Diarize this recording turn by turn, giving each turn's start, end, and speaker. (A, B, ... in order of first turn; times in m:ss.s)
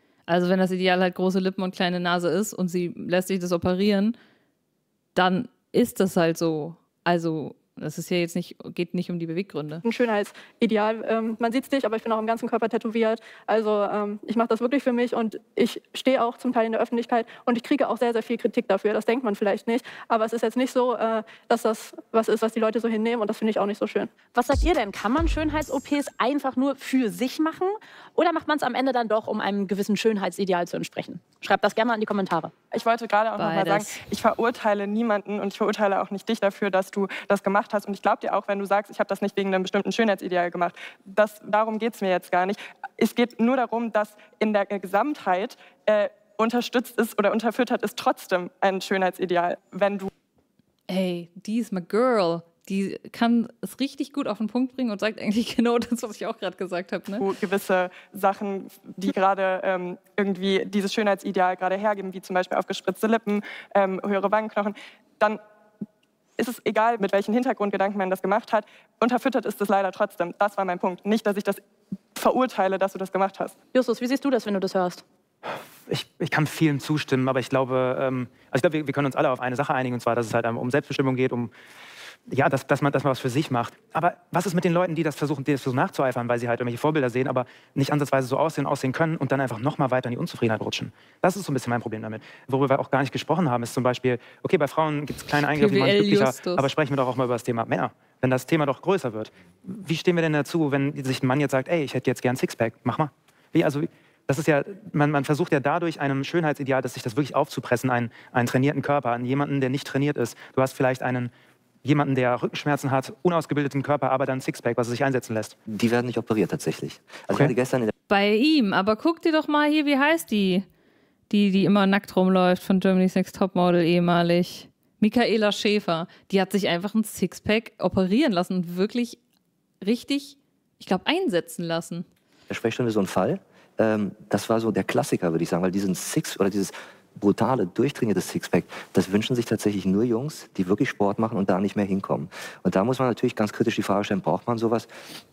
0:00.3-0:04.1 A
0:05.1-0:09.8 A
0:09.8-0:24.1 B
0:24.3-0:32.5 C
0:32.7-0:50.1 D
0:33.4-0:34.0 A
0:50.9-0:57.2 A
0:57.2-1:05.4 D
1:06.4-1:11.6 D
1:12.1-1:13.5 D
1:13.7-1:15.0 C
1:15.9-1:21.5 E
1:22.3-1:51.3 E
1:35.4-1:36.7 A
1:51.8-1:55.5 E
1:55.7-1:57.9 F
1:58.1-2:00.6 A
2:01.3-2:09.2 A
2:09.8-2:12.0 A
2:12.5-2:24.9 F